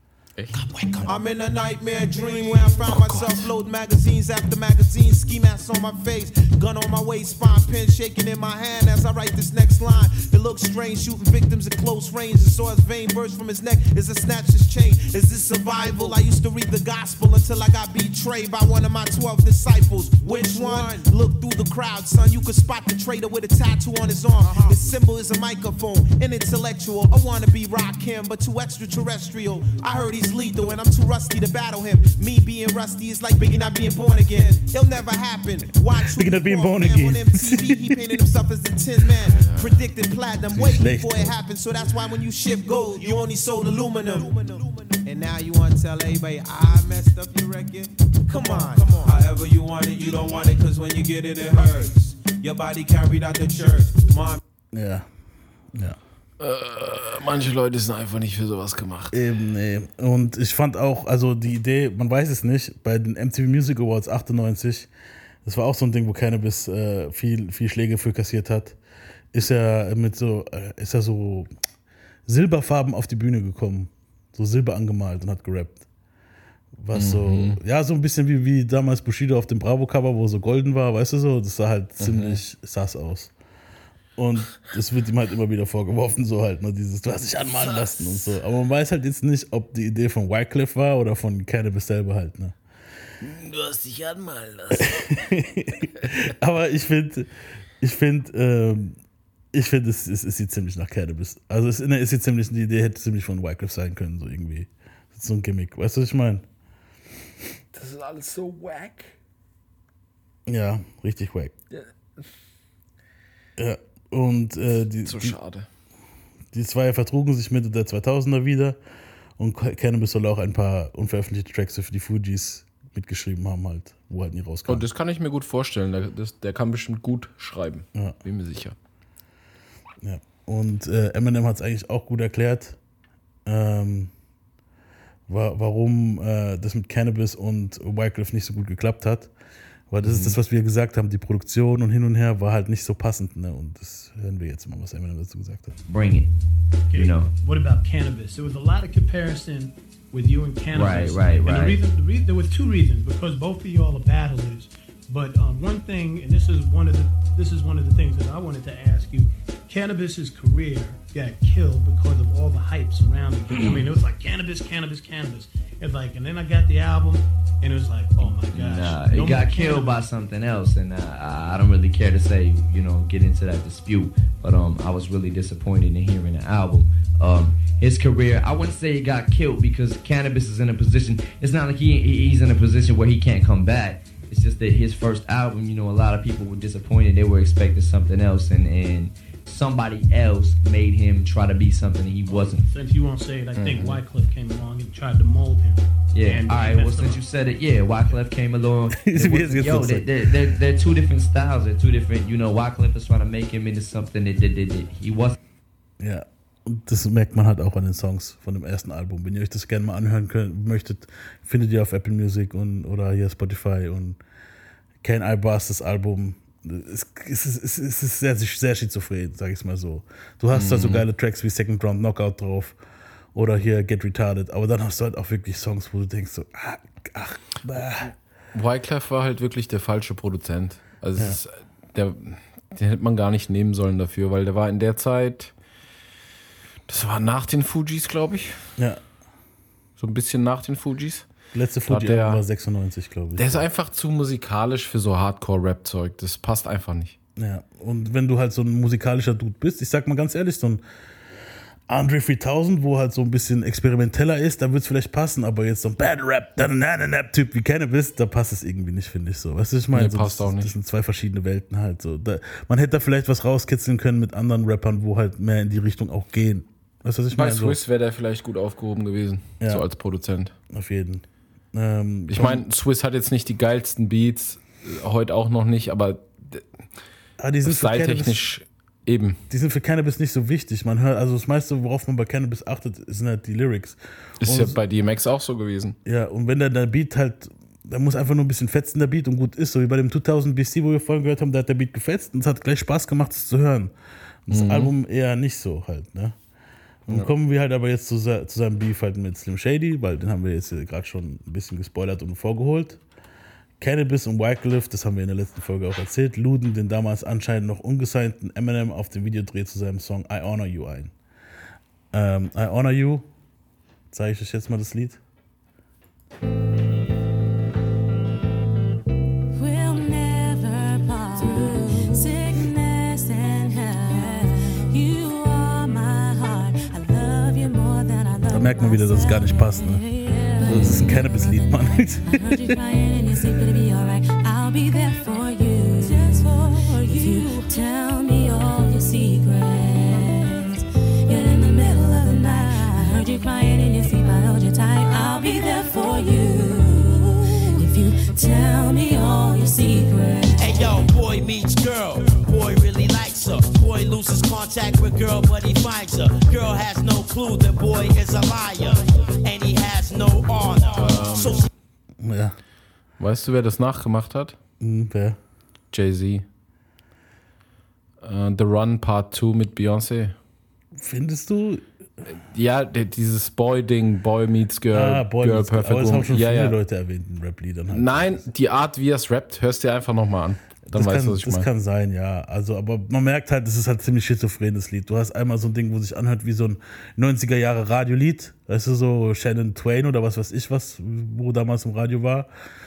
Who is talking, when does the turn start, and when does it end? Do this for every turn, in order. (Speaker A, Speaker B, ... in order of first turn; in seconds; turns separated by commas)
Speaker A: 0.5-1.3, Speaker B: 1.0-54.4, Speaker A: 2.9-3.5, Speaker C: 36.1-38.0, Speaker D: 39.4-39.8, Speaker C: 40.5-41.3, Speaker C: 54.7-55.1, Speaker D: 56.4-59.1, Speaker C: 59.1-64.9, Speaker C: 65.4-68.8, Speaker C: 69.3-71.5, Speaker C: 72.3-75.8, Speaker C: 76.8-83.3, Speaker D: 76.9-77.6, Speaker D: 82.0-82.4, Speaker C: 84.2-92.6, Speaker A: 87.4-88.3, Speaker A: 93.2-94.9, Speaker C: 94.8-97.3, Speaker C: 97.8-99.0, Speaker C: 99.5-106.5, Speaker D: 107.7-109.1, Speaker C: 110.5-111.5, Speaker C: 113.6-115.4, Speaker D: 115.0-115.7, Speaker C: 116.5-118.8, Speaker C: 119.4-124.8, Speaker D: 124.7-128.8, Speaker C: 130.0-132.8, Speaker C: 133.5-134.1, Speaker C: 135.3-139.3, Speaker C: 139.9-145.8, Speaker D: 140.0-140.4, Speaker E: 145.9-146.3, Speaker F: 146.9-170.0, Speaker E: 146.9-147.3, Speaker E: 150.7-151.8, Speaker E: 168.5-192.7, Speaker F: 192.2-197.2, Speaker D: 193.6-194.0, Speaker E: 196.1-205.3, Speaker C: 198.9-200.1, Speaker C: 206.0-214.2, Speaker C: 215.0-222.8, Speaker D: 220.5-221.0, Speaker C: 223.3-228.1, Speaker D: 228.5-235.5, Speaker D: 236.9-238.6, Speaker D: 240.0-241.3, Speaker C: 241.5-243.7, Speaker D: 241.9-242.4, Speaker D: 243.4-247.2, Speaker C: 247.4-250.8, Speaker C: 251.9-267.8, Speaker D: 259.9-260.7, Speaker D: 267.3-270.5, Speaker C: 270.7-272.6, Speaker D: 272.3-276.7, Speaker C: 277.4-278.4, Speaker D: 277.6-279.4, Speaker C: 279.5-284.8, Speaker D: 284.4-286.0, Speaker C: 286.1-293.9, Speaker C: 294.5-296.4, Speaker D: 294.5-294.9, Speaker C: 297.1-303.0, Speaker C: 303.8-311.1, Speaker C: 312.1-313.3, Speaker C: 314.1-315.2, Speaker G: 319.5-351.1, Speaker C: 328.5-330.0, Speaker C: 330.6-332.7, Speaker D: 330.7-331.1, Speaker H: 350.6-361.7, Speaker D: 361.0-361.7, Speaker C: 362.2-362.6, Speaker D: 363.2-364.6, Speaker C: 364.8-365.4, Speaker D: 365.9-366.4, Speaker D: 368.2-370.4, Speaker C: 371.0-371.8, Speaker D: 372.3-376.8, Speaker C: 374.9-378.4, Speaker D: 377.9-381.7, Speaker C: 380.9-392.5